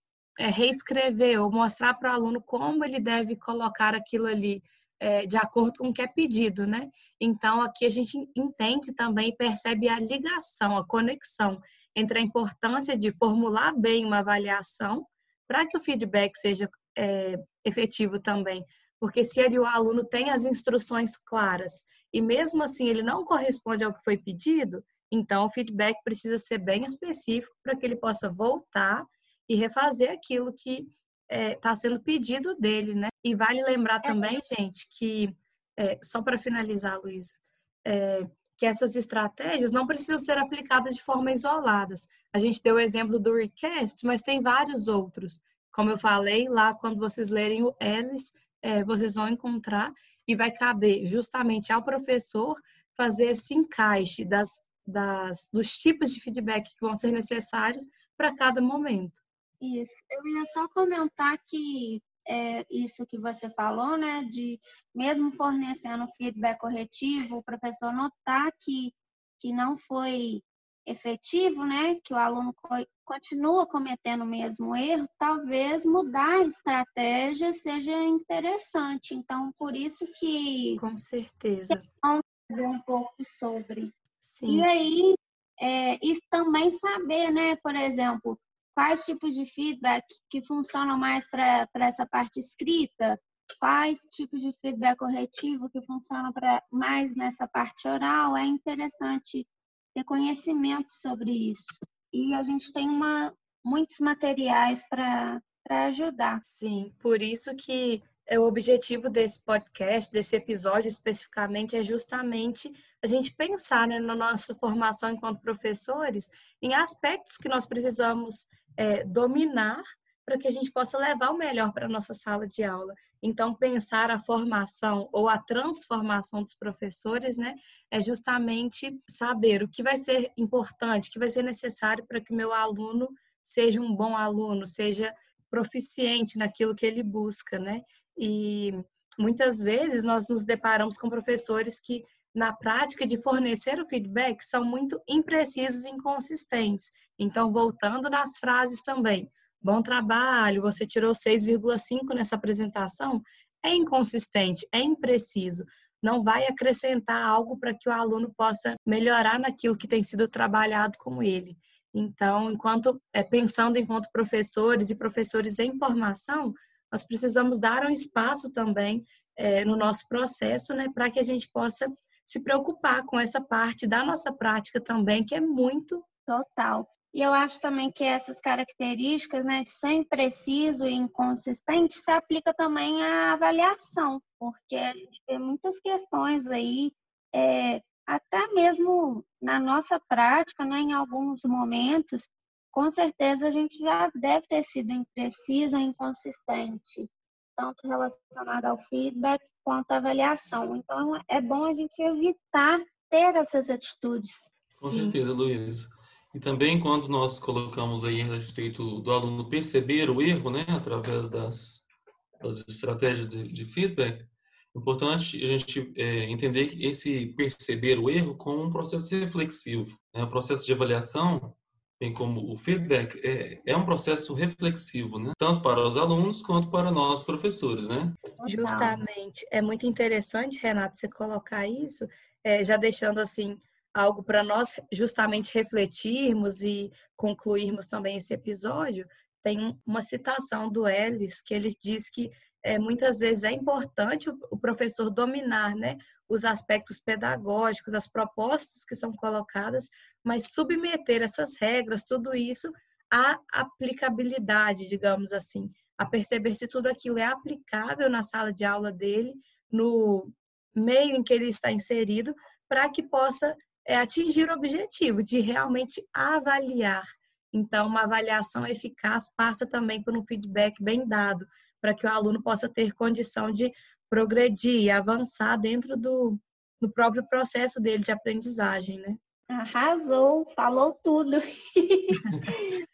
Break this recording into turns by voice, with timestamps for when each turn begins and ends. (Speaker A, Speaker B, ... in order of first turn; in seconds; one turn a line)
Speaker A: 0.4-59.2
Speaker B: 34.0-34.4
Speaker B: 59.6-80.8
Speaker A: 80.8-81.8
Speaker B: 81.7-83.9
Speaker A: 84.2-84.7
Speaker B: 84.5-106.4
Speaker A: 106.5-176.0
Speaker B: 176.3-204.5
Speaker A: 204.7-205.2
Speaker C: 204.8-211.8
Speaker C: 212.4-228.2
Speaker B: 228.4-229.0
Speaker A: 228.5-279.2
Speaker B: 279.5-282.7